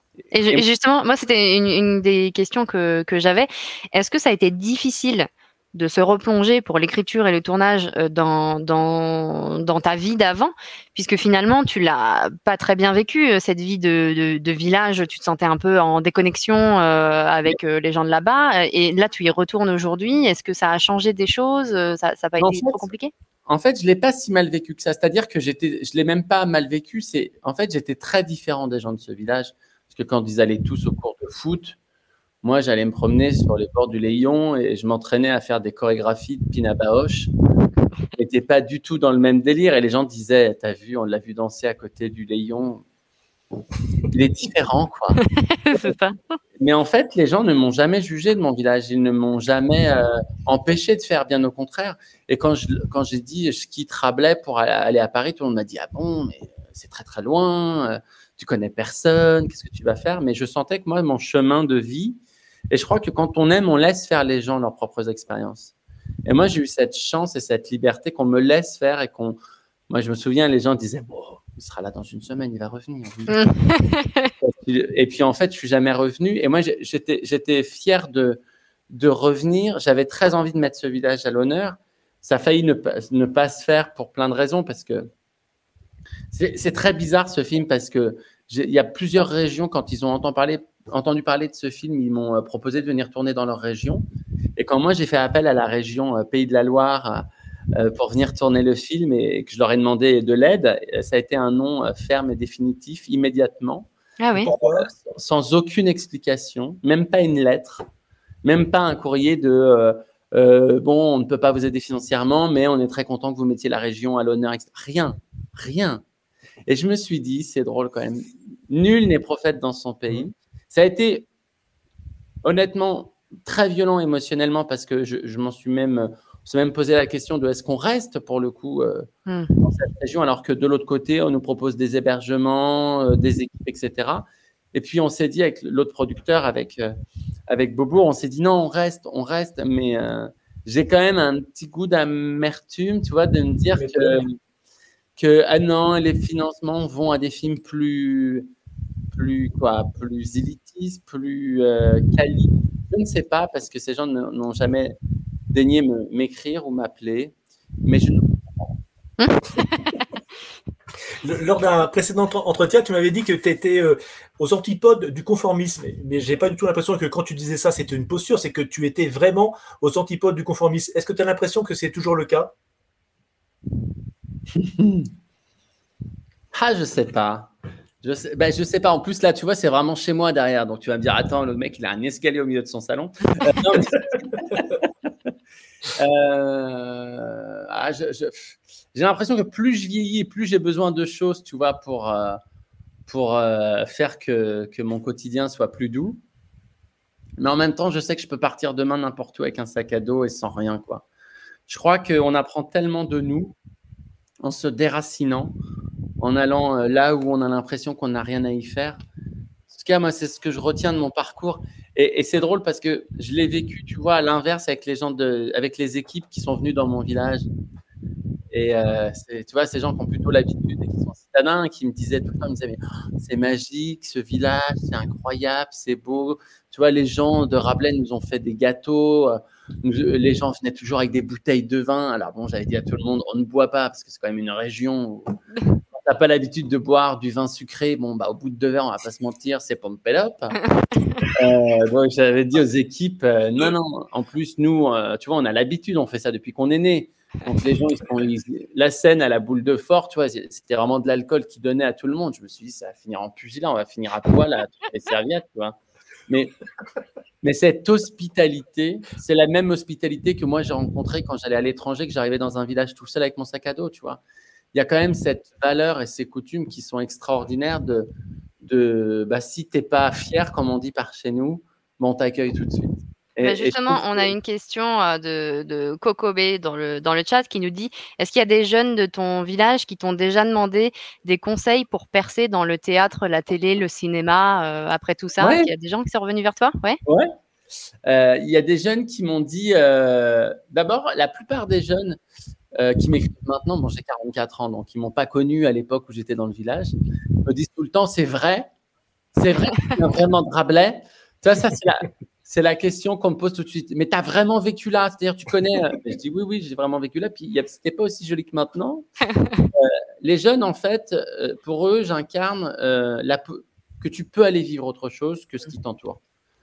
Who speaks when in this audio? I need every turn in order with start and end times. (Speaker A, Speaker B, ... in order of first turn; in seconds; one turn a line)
Speaker A: 0.3-23.1
Speaker B: 22.4-22.9
Speaker B: 23.5-31.8
Speaker B: 32.4-37.3
Speaker B: 38.1-42.8
Speaker B: 44.1-45.2
Speaker A: 45.2-46.2
Speaker B: 46.6-62.2
Speaker B: 62.7-65.7
Speaker B: 66.2-69.4
Speaker B: 69.9-73.4
Speaker A: 73.3-74.3
Speaker B: 74.4-85.1
Speaker B: 86.3-94.0
Speaker B: 94.6-103.9
Speaker A: 104.2-104.5
Speaker C: 104.4-104.9
Speaker B: 104.5-107.8
Speaker B: 108.4-116.0
Speaker B: 116.7-121.3
Speaker B: 122.4-129.1
Speaker A: 129.3-129.6
Speaker B: 129.6-136.9
Speaker B: 137.5-144.4
Speaker C: 143.8-144.2
Speaker B: 145.2-148.5
Speaker B: 149.1-155.0
Speaker B: 155.5-158.3
Speaker A: 159.2-160.0
Speaker C: 161.2-172.5
Speaker B: 174.6-175.1
Speaker B: 176.5-184.9
Speaker B: 185.9-192.4
Speaker B: 193.1-196.2
Speaker B: 197.4-201.1
Speaker B: 201.7-203.6
Speaker B: 204.4-205.5
Speaker B: 206.2-209.0
Speaker B: 209.7-217.5
Speaker B: 218.5-235.4
Speaker B: 235.9-240.6
Speaker B: 241.2-256.6
Speaker B: 257.4-264.2
Speaker B: 264.7-268.1
Speaker B: 268.6-274.3
Speaker A: 273.4-287.0
Speaker B: 285.4-285.7
Speaker B: 287.1-287.3
Speaker B: 288.1-292.2
Speaker B: 292.8-298.7
Speaker B: 299.4-309.1
Speaker A: 309.4-309.7
Speaker B: 309.7-316.2